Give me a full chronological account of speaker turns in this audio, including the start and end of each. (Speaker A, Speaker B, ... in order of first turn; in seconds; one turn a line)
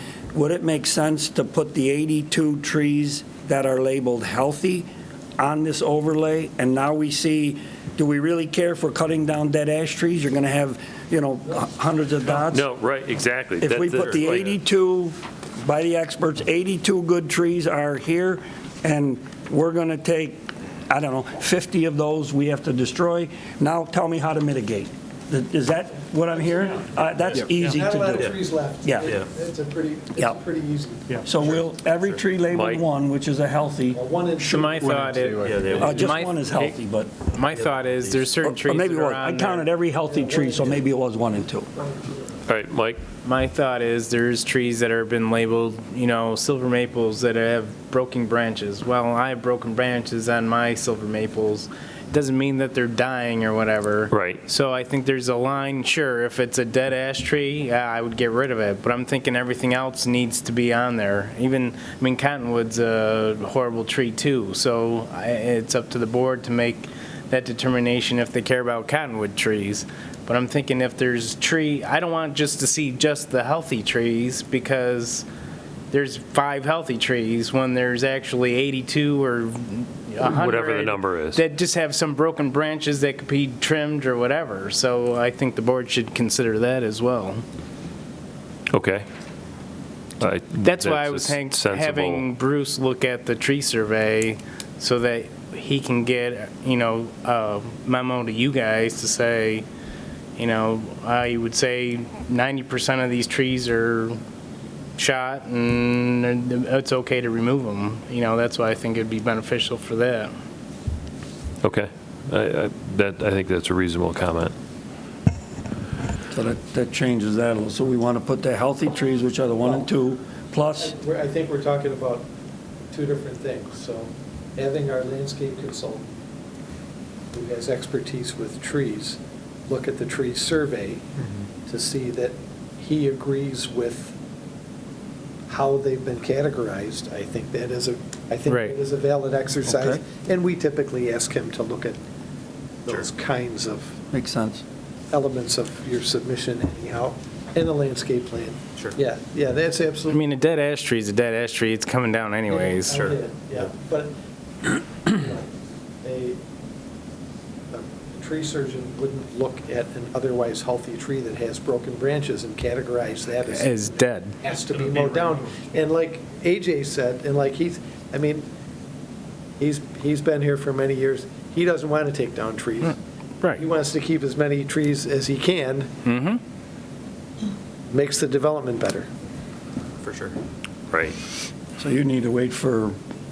Speaker A: 0.3-12.7
Speaker B: 12.4-14.6
Speaker A: 13.6-29.1
Speaker C: 14.0-14.2
Speaker D: 27.6-31.3
Speaker C: 28.1-28.4
Speaker A: 31.2-35.1
Speaker B: 32.5-32.9
Speaker D: 33.9-36.0
Speaker E: 34.4-36.8
Speaker C: 35.4-36.0
Speaker A: 35.8-37.1
Speaker E: 37.3-39.7
Speaker C: 37.5-38.3
Speaker A: 38.4-41.7
Speaker D: 40.1-40.8
Speaker B: 42.5-43.0
Speaker E: 43.2-75.2
Speaker B: 54.1-54.4
Speaker E: 75.9-87.4
Speaker B: 80.2-81.4
Speaker B: 88.7-89.1
Speaker B: 90.2-92.3
Speaker E: 90.6-99.7
Speaker E: 100.4-104.2
Speaker E: 105.0-110.3
Speaker B: 111.6-114.5
Speaker A: 116.3-120.9
Speaker D: 120.8-122.3
Speaker D: 122.9-126.1
Speaker D: 127.3-131.1
Speaker C: 131.2-131.5
Speaker D: 131.6-134.2
Speaker D: 135.5-142.0
Speaker E: 138.5-138.8
Speaker A: 139.7-140.0
Speaker D: 142.8-144.0
Speaker A: 144.1-144.6
Speaker D: 145.1-150.2
Speaker E: 150.1-153.1
Speaker D: 152.5-154.1
Speaker D: 154.7-155.5
Speaker D: 156.0-156.4
Speaker D: 157.7-168.5
Speaker E: 163.5-164.3
Speaker D: 169.6-173.0
Speaker D: 173.6-175.9
Speaker E: 176.1-176.4
Speaker D: 177.9-179.1
Speaker C: 180.0-180.4
Speaker B: 180.9-181.2
Speaker A: 181.8-183.0